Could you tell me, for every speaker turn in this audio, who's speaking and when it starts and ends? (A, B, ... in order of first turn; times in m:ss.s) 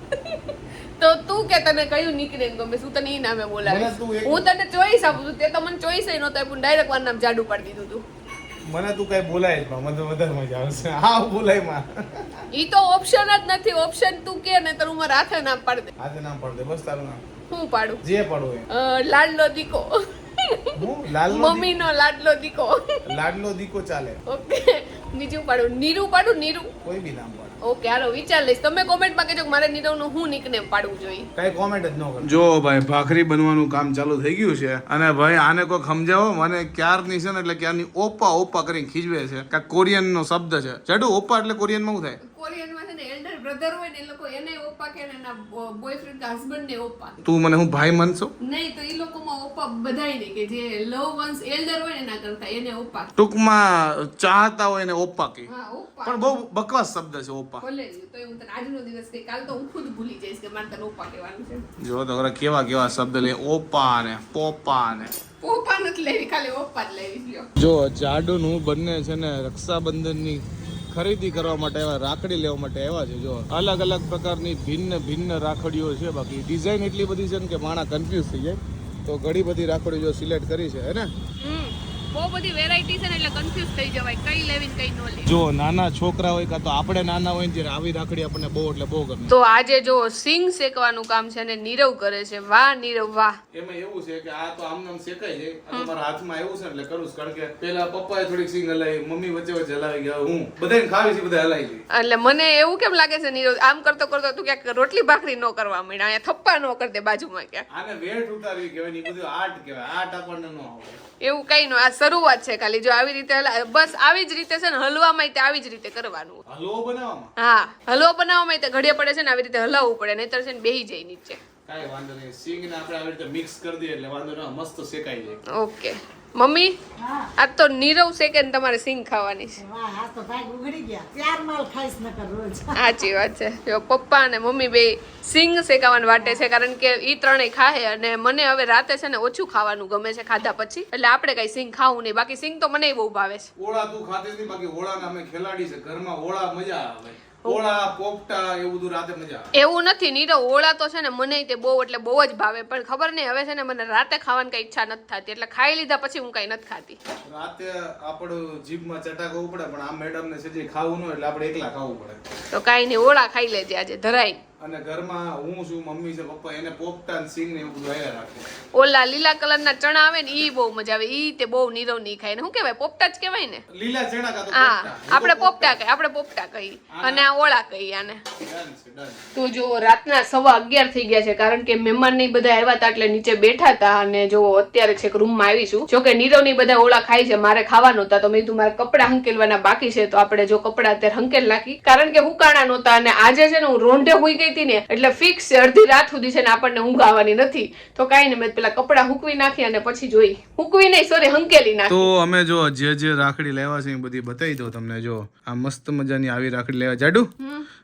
0:00.1-0:08.0 A
0:03.6-0:04.4 B
0:08.7-0:12.5 B
0:12.5-0:15.9 A
0:16.0-0:17.2 B
0:17.5-0:18.0 A
0:18.0-0:18.7 B
0:18.7-0:23.0 A
0:20.7-0:21.7 B
0:23.1-0:24.2 B
0:24.3-0:26.7 A
0:26.8-0:27.6 B
0:27.6-0:31.3 A
0:31.4-0:42.2 B
0:42.2-0:47.2 A
0:47.2-0:48.3 B
0:48.4-0:53.1 A
0:53.2-0:55.5 B
0:55.5-0:56.4 A
0:56.0-0:57.6 B
0:57.6-1:01.6 A
1:01.8-1:05.1 B
1:05.4-1:07.5 A
1:07.6-1:21.1 B
1:21.4-1:25.4 A
1:25.3-1:29.3 B
1:29.3-1:33.4 A
1:33.5-1:41.8 B
1:41.9-1:47.6 A
1:47.7-1:51.0 B
1:51.2-1:56.4 A
1:56.5-1:57.3 B
1:57.4-2:01.4 A
2:01.7-2:05.4 B
2:05.5-2:06.7 A
2:07.4-2:09.6 A
2:09.7-2:12.7 C
2:12.7-2:23.5 A
2:23.6-2:29.5 B
2:29.5-2:37.0 A
2:37.2-2:42.2 B
2:42.5-2:44.4 A
2:44.6-2:48.5 B
2:48.8-2:53.6 A
2:53.7-2:55.8 B
2:54.5-2:58.3 A
2:56.9-2:57.3 B
2:58.4-2:59.2 B
2:59.4-3:22.1 A
3:21.9-3:27.3 B
3:27.4-3:27.7 A